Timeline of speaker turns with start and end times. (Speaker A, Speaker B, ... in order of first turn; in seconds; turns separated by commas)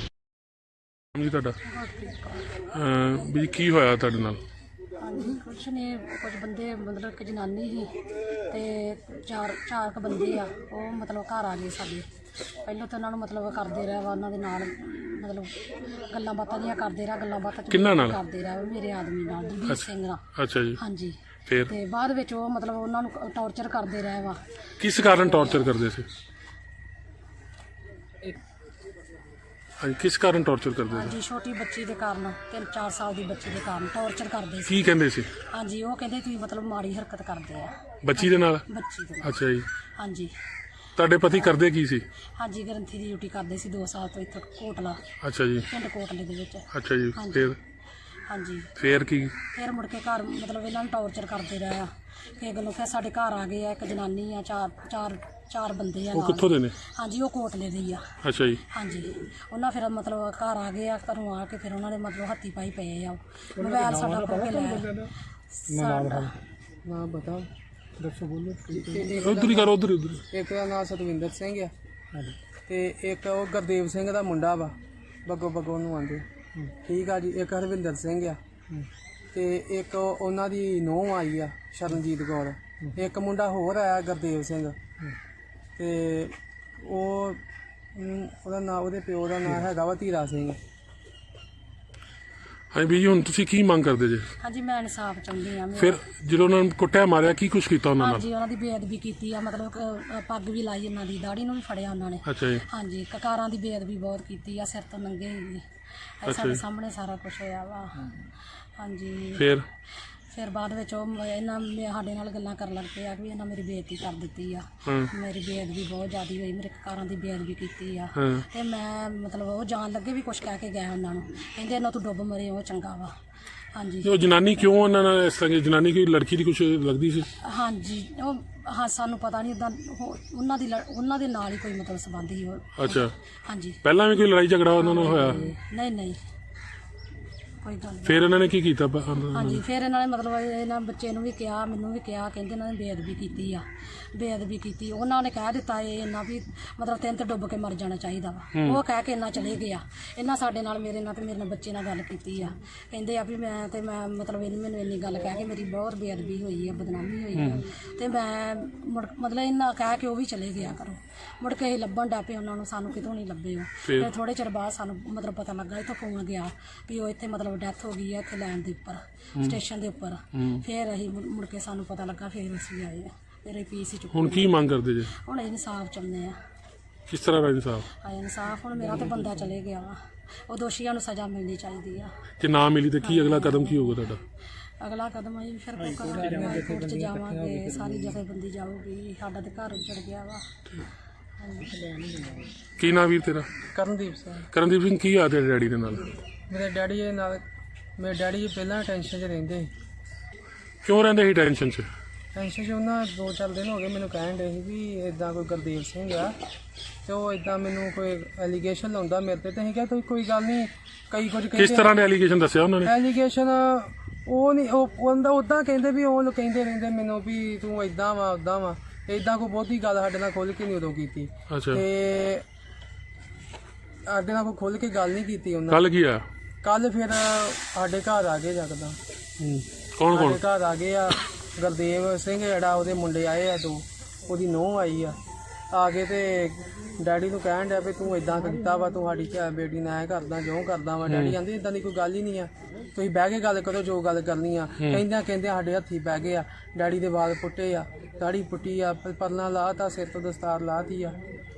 Speaker A: 1.1-1.5, Speaker B: 1.7-2.5, Speaker A: 2.7-4.4, Speaker B: 5.0-7.9, Speaker B: 8.5-12.1, Speaker B: 12.6-20.2, Speaker A: 17.7-18.1, Speaker A: 20.4-20.8, Speaker B: 20.8-24.4, Speaker A: 24.8-26.0, Speaker B: 24.9-25.6, Speaker A: 29.8-31.1, Speaker B: 30.9-39.4, Speaker A: 34.7-35.3, Speaker A: 38.0-38.6, Speaker A: 39.2-39.6, Speaker B: 40.0-40.3, Speaker A: 41.0-42.0, Speaker B: 42.4-45.0, Speaker A: 45.2-45.6, Speaker B: 45.7-47.6, Speaker A: 46.7-47.5, Speaker B: 48.3-48.7, Speaker A: 48.8-49.3, Speaker B: 49.5-58.0, Speaker A: 56.1-56.7, Speaker A: 58.2-58.6, Speaker B: 58.7-64.9, Speaker B: 65.6-66.3, Speaker C: 66.8-67.5, Speaker C: 68.7-69.7, Speaker A: 69.2-70.2, Speaker C: 70.3-71.7, Speaker C: 72.7-74.7, Speaker C: 75.2-76.2, Speaker C: 76.8-78.4, Speaker C: 79.3-84.8, Speaker C: 85.8-87.4, Speaker C: 88.0-90.6, Speaker A: 92.7-94.2, Speaker B: 94.4-96.0, Speaker A: 95.8-98.2, Speaker B: 98.0-105.6, Speaker A: 102.3-102.6, Speaker B: 106.2-108.2, Speaker A: 106.3-106.6, Speaker B: 108.8-109.5, Speaker A: 109.4-109.6, Speaker B: 110.3-123.1, Speaker B: 123.7-124.7, Speaker A: 124.0-127.2, Speaker B: 127.4-133.8, Speaker A: 132.8-133.1, Speaker A: 133.8-135.4, Speaker B: 134.8-136.2, Speaker B: 137.6-138.3, Speaker A: 138.1-139.6, Speaker B: 139.3-176.3, Speaker A: 174.1-175.1, Speaker A: 177.1-177.8, Speaker B: 178.0-179.9, Speaker B: 180.5-182.1, Speaker A: 182.4-184.2, Speaker B: 183.0-184.0, Speaker B: 184.8-190.4, Speaker B: 191.4-191.8, Speaker A: 192.8-193.5, Speaker C: 193.7-194.5, Speaker A: 194.5-196.1, Speaker C: 196.5-197.4, Speaker C: 198.0-199.7, Speaker A: 200.8-201.9, Speaker C: 202.3-206.3, Speaker C: 207.1-212.0, Speaker A: 211.6-212.9, Speaker C: 212.8-222.4, Speaker A: 221.5-221.8, Speaker C: 224.1-225.8, Speaker A: 225.7-226.2, Speaker C: 226.6-229.0, Speaker A: 229.4-230.4, Speaker C: 230.1-235.2, Speaker C: 235.7-251.2